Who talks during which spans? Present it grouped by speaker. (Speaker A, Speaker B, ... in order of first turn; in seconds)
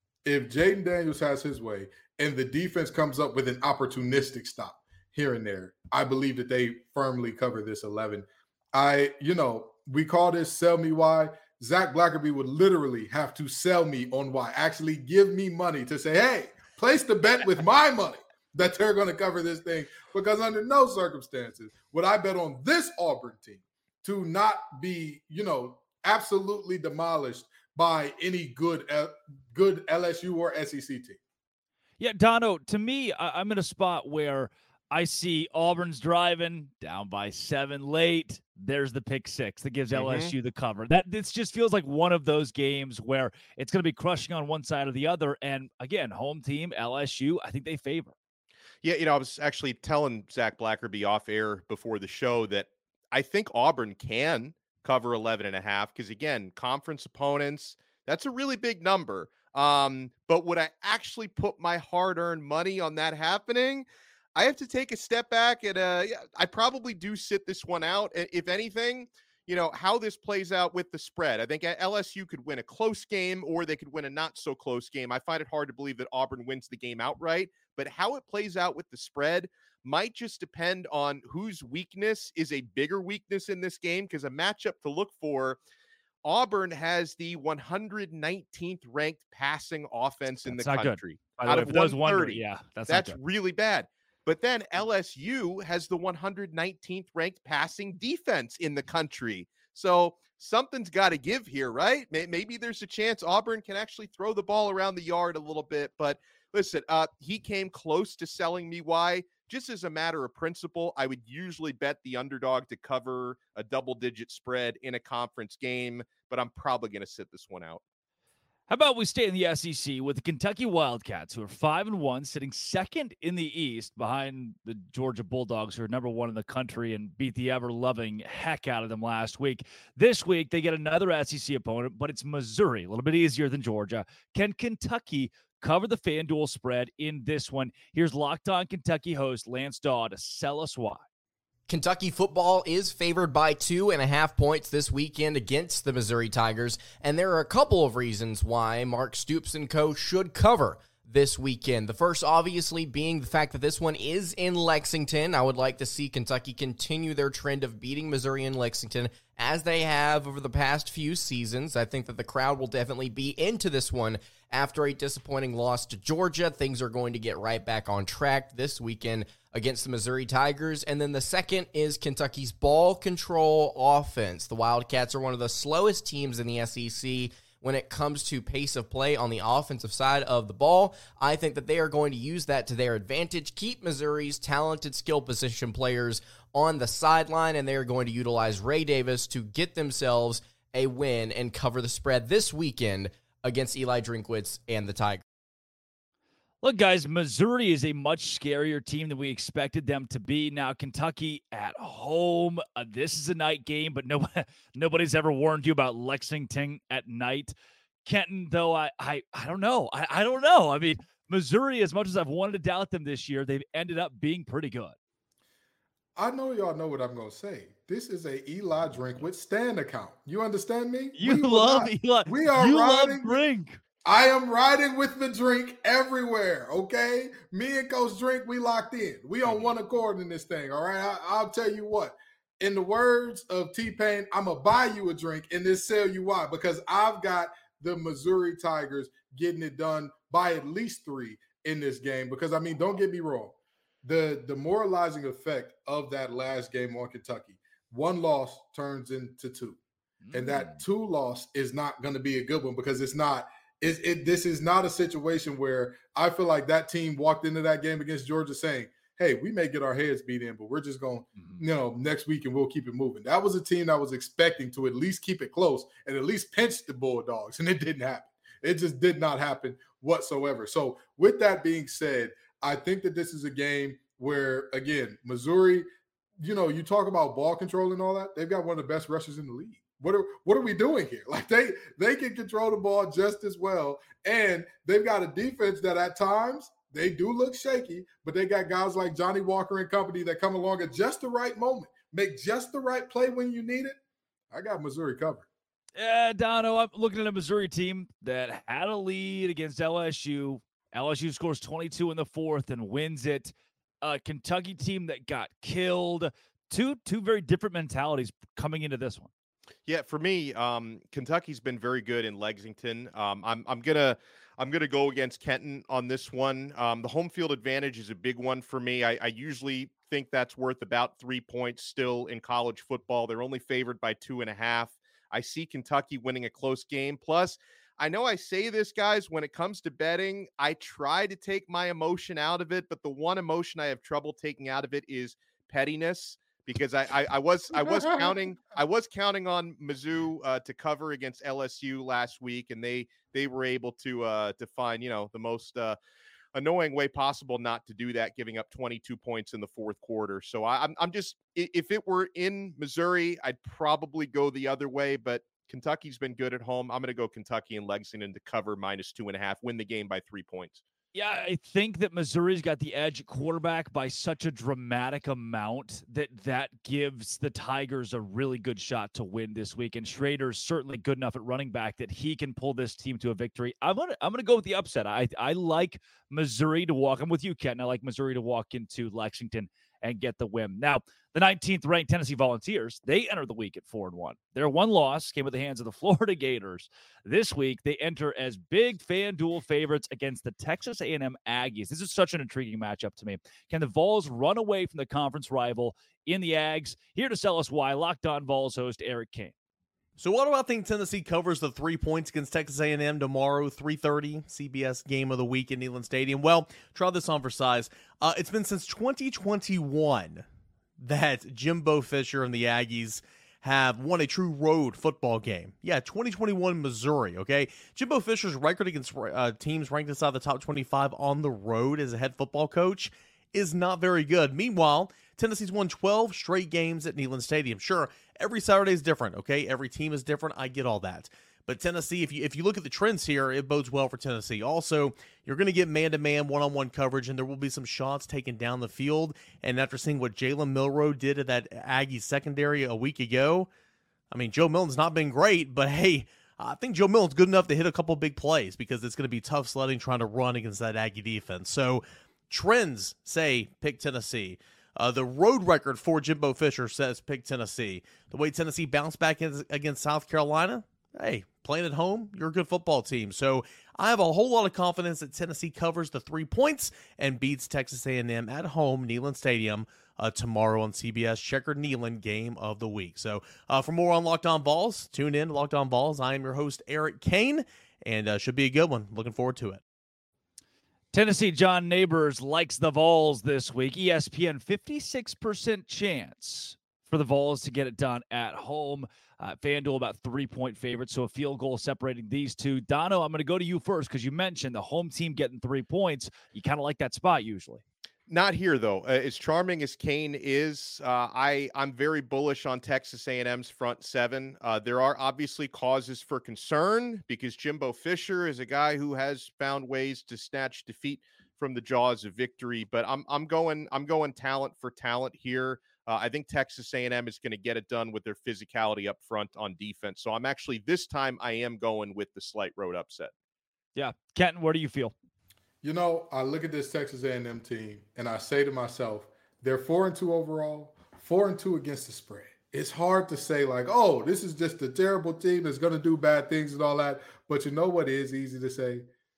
Speaker A: 0.2-31.2, 216.2-223.3, 224.0-249.8, 250.3-275.9, 276.4-294.0, 294.5-295.5, 525.8-539.0
Speaker B: 32.0-48.1, 90.4-93.2, 118.7-141.0, 196.6-207.5, 208.0-214.9, 221.2-223.8, 250.2-250.8, 261.4-261.6, 295.9-309.3, 361.1-399.5, 481.1-497.8, 524.0-525.1
Speaker C: 39.9-40.3, 48.8-85.6, 86.2-117.8, 309.9-346.0, 346.5-360.8, 498.3-523.3
Speaker D: 141.7-195.2
Speaker E: 400.2-410.4, 411.0-443.7, 444.3-479.8